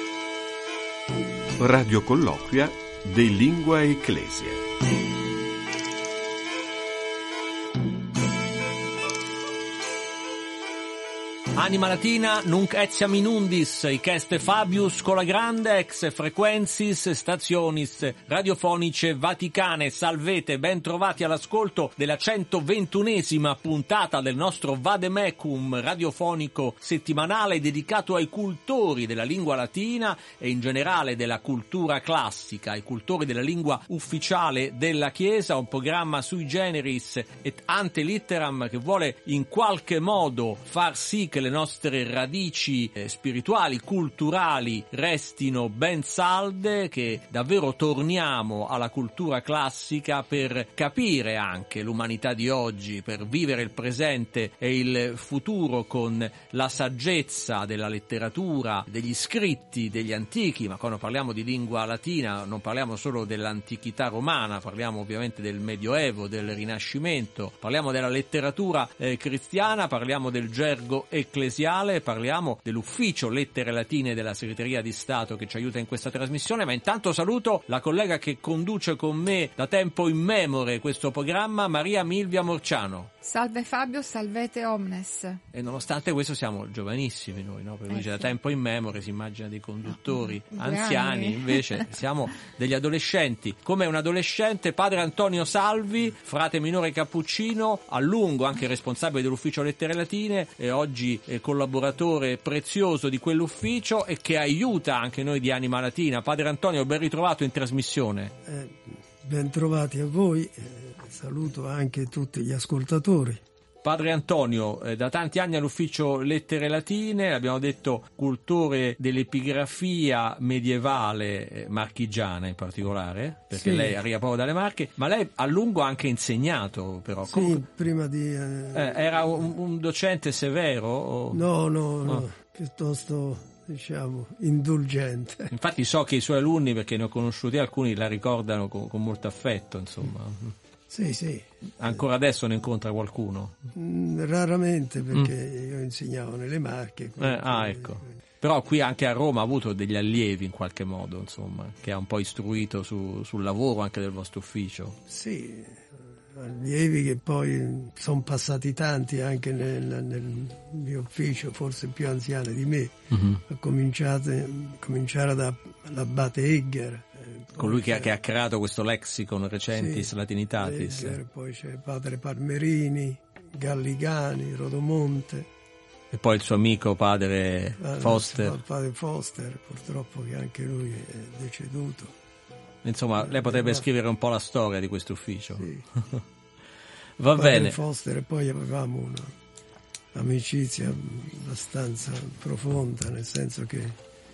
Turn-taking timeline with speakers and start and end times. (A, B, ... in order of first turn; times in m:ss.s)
0:01.6-0:04.6 A
0:11.6-1:23.1 B
1:23.2-1:25.4 C
1:25.5-1:48.3 B
1:27.9-1:28.3 C
1:30.1-1:31.9 C
1:48.4-1:53.4 D
1:53.8-2:07.6 B
2:03.5-2:04.0 D
2:07.2-2:09.5 D
2:08.7-2:11.4 B
2:11.3-2:15.5 D
2:15.5-2:20.5 B
2:20.9-2:22.0 D
2:21.8-2:23.5 B
2:23.7-2:28.0 D
2:27.2-2:35.0 B
2:35.1-2:48.1 D
2:43.1-2:43.4 B
2:47.6-2:51.2 B
2:49.7-2:55.5 D
2:56.1-2:58.6 B
2:57.8-3:02.1 D
3:02.8-3:06.2 B
3:03.2-3:03.9 D
3:05.6-3:05.8 D
3:07.2-3:07.8 B
3:07.4-3:09.4 D
3:10.1-3:14.0 D